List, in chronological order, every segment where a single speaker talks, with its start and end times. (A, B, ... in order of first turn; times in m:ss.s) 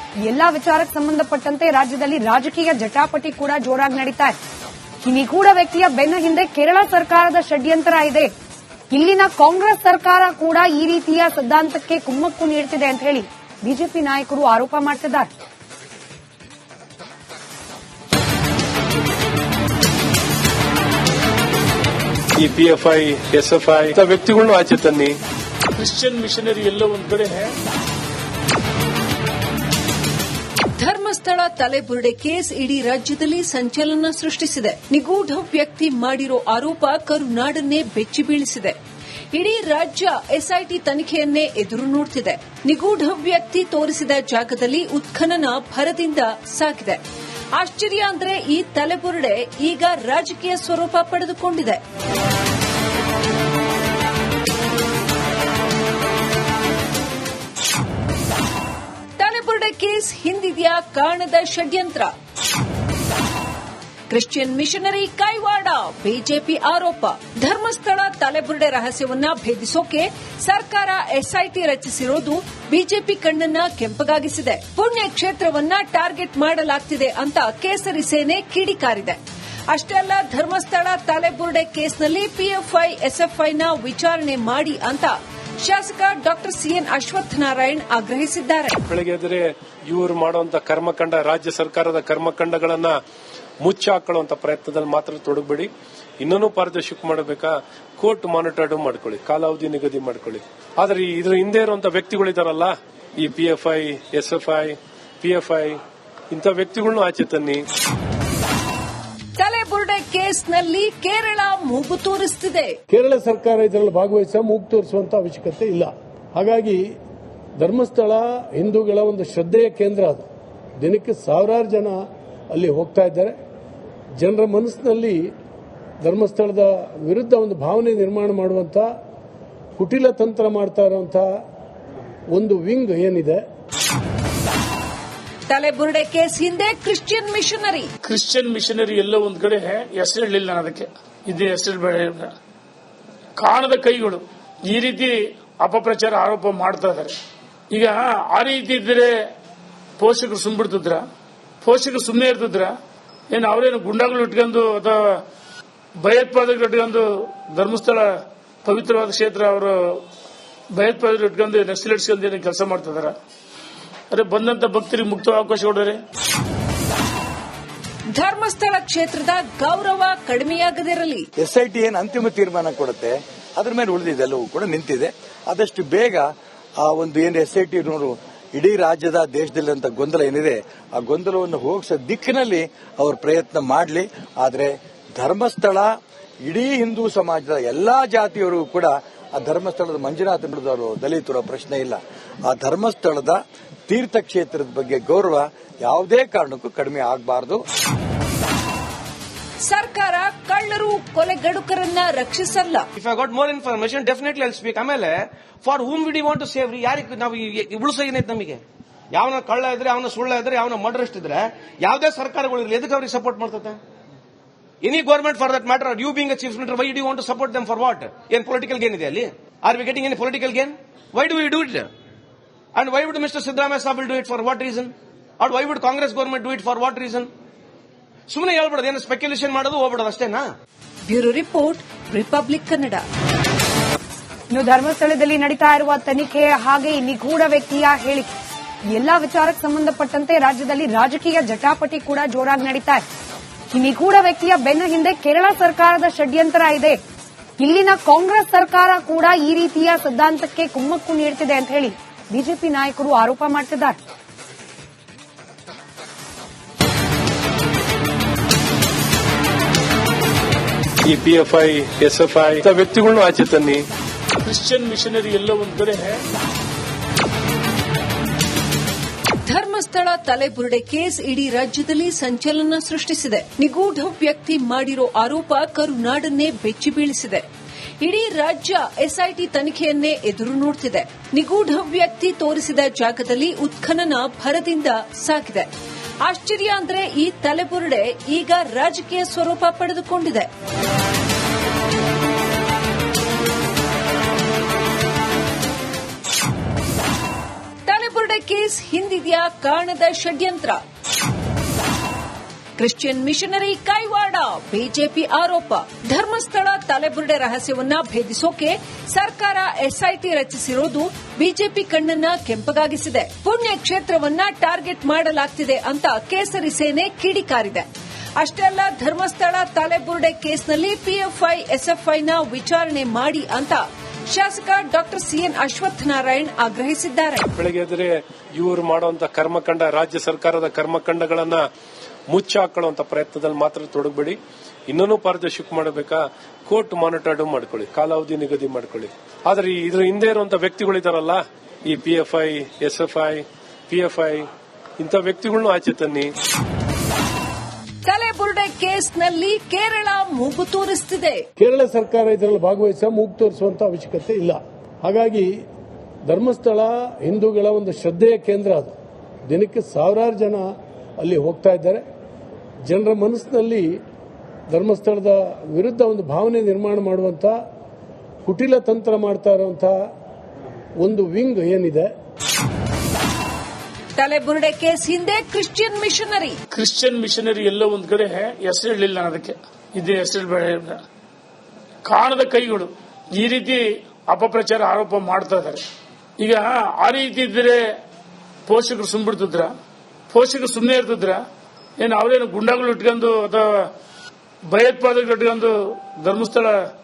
0:00.2-0:04.4 A
0:05.0-0:08.3 A
0:08.9-0:15.3 A
0:22.4-0:25.2 B
0:25.8-0:27.5 C
0:30.8-0:38.8 D
0:39.3-0:47.0 D
0:47.6-0:51.8 D
0:59.2-1:02.1 D
1:04.1-1:19.2 D
1:19.7-1:28.8 D
1:28.9-1:33.0 B
1:33.6-1:45.8 B
1:46.3-1:47.6 B
1:49.4-1:52.8 D
1:52.9-1:56.8 E
1:57.6-2:00.2 E
2:00.8-2:02.0 E
2:02.5-2:03.3 E
2:04.2-2:05.2 E
2:06.0-2:08.9 E
2:09.8-2:11.2 E
2:12.3-2:13.4 E
2:15.5-2:17.9 D
2:18.0-2:22.3 C
2:23.4-2:27.2 C
2:27.7-2:29.1 C
2:30.0-2:31.1 C
2:31.6-2:32.7 C
2:33.3-2:35.2 C
2:36.0-2:40.0 C
2:40.7-2:43.1 C
2:44.1-2:46.0 C
2:48.1-2:51.3 D
2:51.4-2:56.3 F
2:56.8-3:05.9 F
3:06.4-3:17.6 F
3:19.6-3:22.9 D
3:23.0-3:33.8 G
3:34.8-3:41.9 G
3:42.8-3:47.3 G
3:48.3-3:50.5 G
3:51.1-3:53.1 D
3:54.5-3:58.3 A
3:58.9-4:03.0 A
4:03.7-4:07.0 A
4:07.6-4:14.0 A
4:21.0-4:23.8 B
4:24.4-4:26.2 C
4:29.4-4:37.4 D
4:38.0-4:45.7 D
4:46.2-4:50.5 D
4:57.9-5:00.8 D
5:02.8-5:27.5 D
5:27.6-5:31.6 B
5:32.3-5:44.5 B
5:45.0-5:46.3 B
5:48.1-5:51.4 D
5:51.6-5:55.5 E
5:56.3-5:58.9 E
5:59.5-6:00.6 E
6:01.2-6:02.0 E
6:02.9-6:03.9 E
6:04.7-6:07.5 E
6:08.5-6:09.9 E
6:11.0-6:12.1 E
6:14.2-6:16.6 D
6:16.7-6:21.0 C
6:22.0-6:25.8 C
6:26.4-6:27.8 C
6:28.7-6:29.7 C
6:30.3-6:31.4 C
6:32.0-6:33.9 C
6:34.7-6:36.8 C